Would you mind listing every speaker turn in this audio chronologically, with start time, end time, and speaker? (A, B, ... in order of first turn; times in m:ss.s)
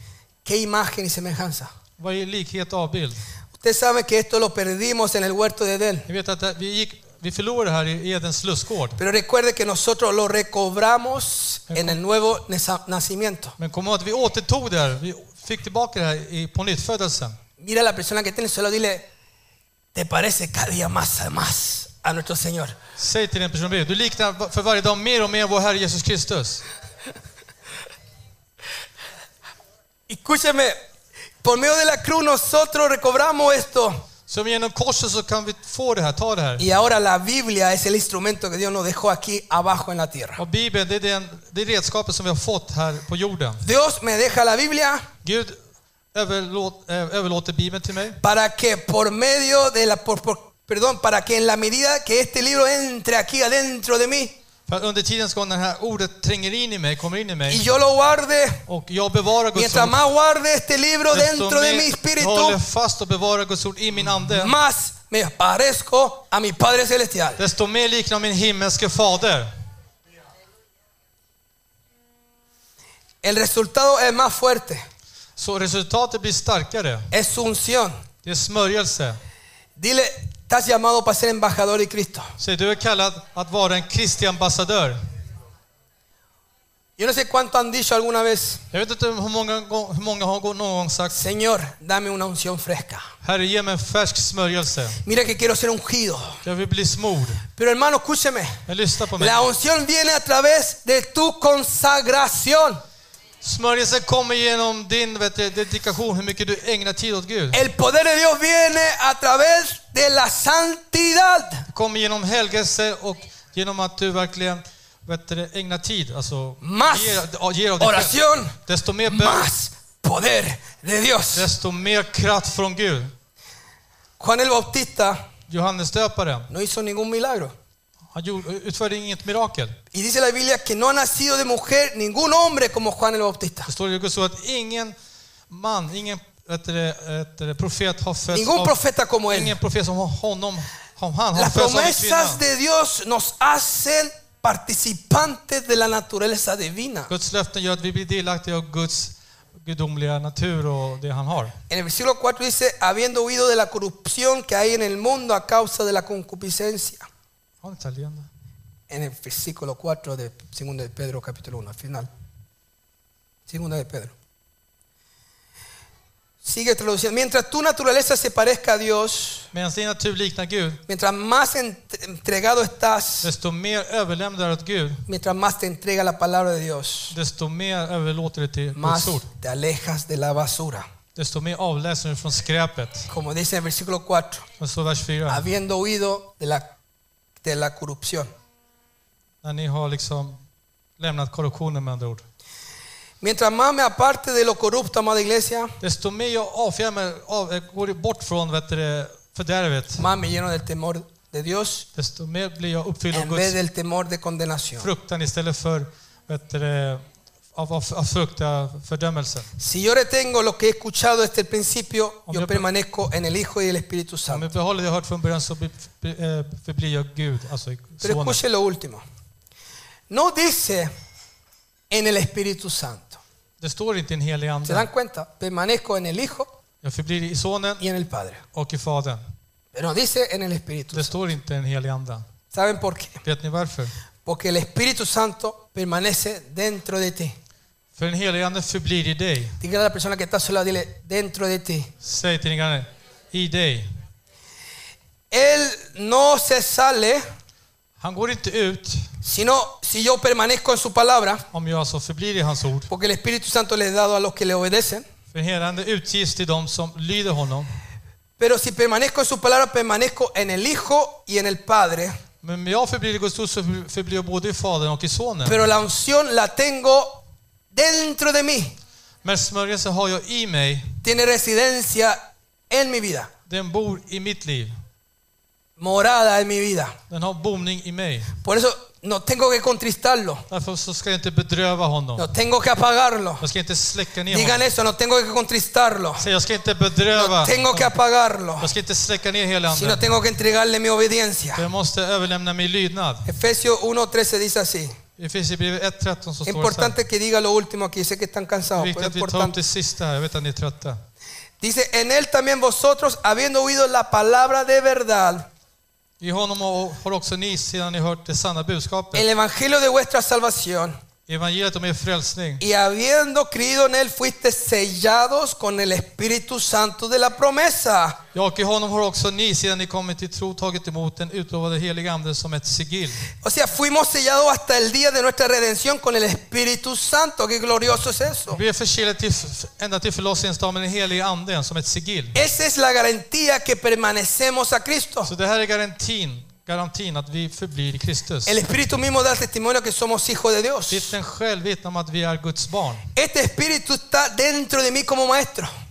0:00.4-0:01.7 A
0:02.0-0:03.2 B
0:03.6-0:06.1 A
0:06.1-0:09.0 B
0:09.0-0:13.5 A
0:11.7-0:12.0 B
0:13.6-0:17.4 B
0:17.6-0:19.0 A
0:19.9-0:22.7 A
0:23.0-0:26.6 B
0:30.1-0:30.8 A
0:31.4-0:34.0 A
0:34.3-0:36.6 B
0:36.6-0:40.4 A
0:40.4-0:43.6 B
0:43.6-0:45.0 A
0:45.2-0:45.6 B
0:46.1-0:48.2 B
0:48.2-0:54.3 A
0:54.7-0:57.6 B
0:57.5-0:58.6 A
0:58.7-1:00.0 B
0:59.5-1:02.6 A
1:01.1-1:04.5 B
1:04.0-1:07.4 A
1:07.4-1:09.5 B
1:13.2-1:14.8 A
1:15.4-1:17.1 B
1:17.1-1:17.9 A
1:18.2-1:19.2 B
1:19.8-1:22.3 A
1:22.4-1:25.0 B
1:27.0-1:28.6 A
1:28.7-1:31.2 B
1:31.1-1:33.0 A
1:33.2-1:35.0 B
1:35.0-1:36.4 A
1:36.4-1:37.4 B
1:37.5-1:38.6 A
1:38.7-1:39.4 B
1:39.2-1:42.8 A
1:43.4-1:47.6 B
1:47.5-1:51.6 A
1:51.7-1:59.5 B
1:56.6-1:57.2 A
1:57.8-1:58.5 A
1:59.1-2:01.5 A
2:01.3-2:03.1 B
2:04.2-2:05.2 A
2:05.5-2:06.5 B
2:06.5-2:07.5 A
2:08.1-2:09.8 B
2:09.9-2:13.7 A
2:13.6-2:14.9 B
2:15.5-2:18.7 B
2:18.3-2:19.5 A
2:19.3-2:22.4 B
2:21.3-2:27.1 A
2:27.1-2:31.5 B
2:31.7-2:37.0 A
2:37.6-2:38.3 B
2:38.9-2:42.1 A
2:43.5-2:44.1 A
2:46.4-2:49.5 A
2:49.5-2:50.8 B
2:50.9-2:53.3 A
2:53.2-2:55.0 B
2:55.1-2:57.1 A
2:57.1-2:59.3 B
2:58.8-3:00.8 A
3:01.2-3:03.1 B
3:03.1-3:04.4 A
3:04.6-3:05.4 B
3:05.3-3:06.6 A
3:07.4-3:08.3 A
3:09.4-3:10.4 B
3:11.0-3:12.2 B
3:13.2-3:15.7 A
3:15.8-3:20.0 B
3:20.0-3:21.9 A
3:22.0-3:23.6 B
3:23.1-3:24.9 A
3:24.8-3:27.0 B
3:27.5-3:29.5 B
3:29.6-3:34.5 A
3:32.3-3:32.6 B
3:34.3-3:38.4 B
3:38.0-3:39.0 A
3:40.1-3:40.9 A
3:41.9-3:43.2 A
3:43.6-3:44.9 B
3:44.6-3:46.5 A
3:46.8-3:47.8 B
3:47.8-3:48.4 A
3:48.5-3:49.2 B
3:49.7-3:51.1 A
3:50.9-3:52.2 B
3:52.5-3:53.2 A
3:53.2-3:53.9 B
3:54.2-3:57.3 A
3:58.0-3:59.6 B
3:59.6-4:01.9 A
4:02.0-4:03.9 B
4:05.3-4:07.2 A
4:08.0-4:09.1 B
4:09.2-4:11.4 A
4:11.5-4:12.9 B
4:12.9-4:15.0 A
4:15.3-4:17.7 B
4:18.4-4:22.2 A
4:22.4-4:25.6 B
4:25.4-4:27.2 A
4:27.7-4:28.8 A
4:29.2-4:30.9 B
4:31.0-4:32.2 A
4:32.7-4:33.3 A
4:33.5-4:34.7 B
4:35.8-4:37.0 A
4:37.1-4:38.4 B
4:38.4-4:40.4 A
4:40.5-4:42.3 B
4:42.2-4:43.4 A
4:43.4-4:44.6 B
4:44.3-4:46.2 A
4:46.2-4:47.9 B
4:47.1-4:48.7 A
4:48.6-4:50.0 B
4:49.7-4:51.6 A
4:51.5-4:53.3 B
4:53.2-4:55.0 A
4:55.2-4:57.0 B
4:56.4-4:59.6 A
4:58.8-5:01.0 B
5:01.6-5:05.5 A
5:06.2-5:09.2 B
5:09.1-5:11.0 A
5:11.3-5:12.6 B
5:12.6-5:18.2 A
5:18.3-5:23.2 B
5:23.4-5:28.6 A
5:28.5-5:32.4 B
5:32.3-5:35.3 A
5:35.2-5:38.5 B
5:38.4-5:41.1 A
5:40.9-5:43.0 B
5:43.1-5:45.7 A